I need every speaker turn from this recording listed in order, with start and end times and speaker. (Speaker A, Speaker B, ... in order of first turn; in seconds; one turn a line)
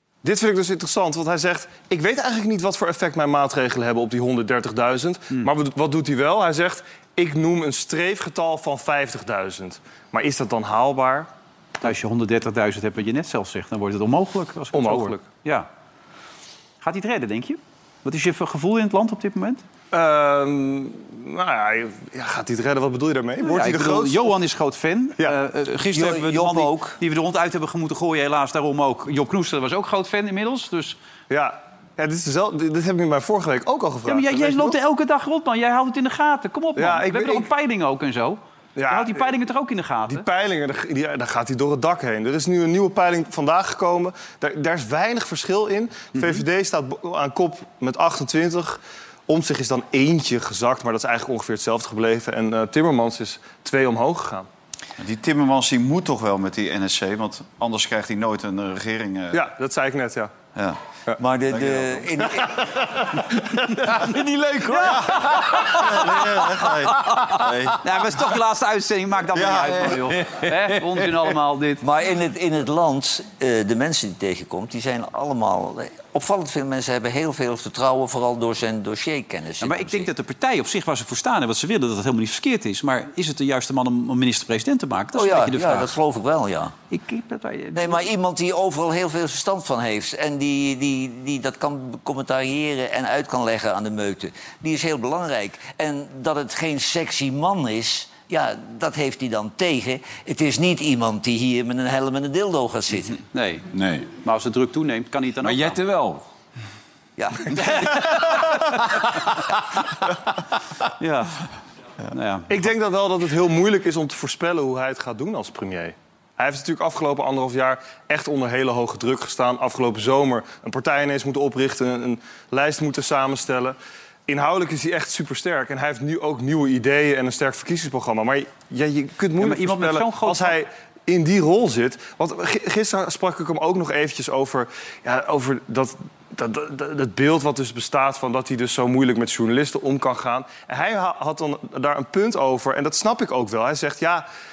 Speaker A: 0.2-11.3
Speaker B: 11.8-15.7
Speaker A: 14.7-15.3
Speaker B: 16.8-19.6
Speaker A: 19.9-24.3
Speaker B: 23.4-31.0
Speaker C: 25.9-27.0
Speaker A: 31.3-34.8
Speaker B: 34.1-40.3
Speaker A: 36.8-37.5
Speaker A: 38.8-39.3
Speaker A: 40.1-54.5
Speaker B: 46.1-46.4
Speaker D: 55.0-59.5
Speaker A: 59.3-60.3
Speaker C: 61.2-62.7
Speaker D: 61.5-62.1
Speaker A: 62.7-63.0
Speaker B: 64.7-66.2
Speaker D: 64.8-67.8
Speaker B: 66.9-71.8
Speaker D: 69.3-70.2
Speaker C: 71.8-80.1
Speaker B: 79.6-85.9
Speaker C: 85.1-86.7
Speaker B: 86.9-88.1
Speaker C: 87.7-103.2
Speaker B: 103.3-105.8
Speaker C: 107.2-108.4
Speaker B: 107.5-108.8
Speaker B: 111.0-111.5
Speaker B: 112.1-112.5
Speaker A: 112.5-144.3
Speaker B: 129.4-130.6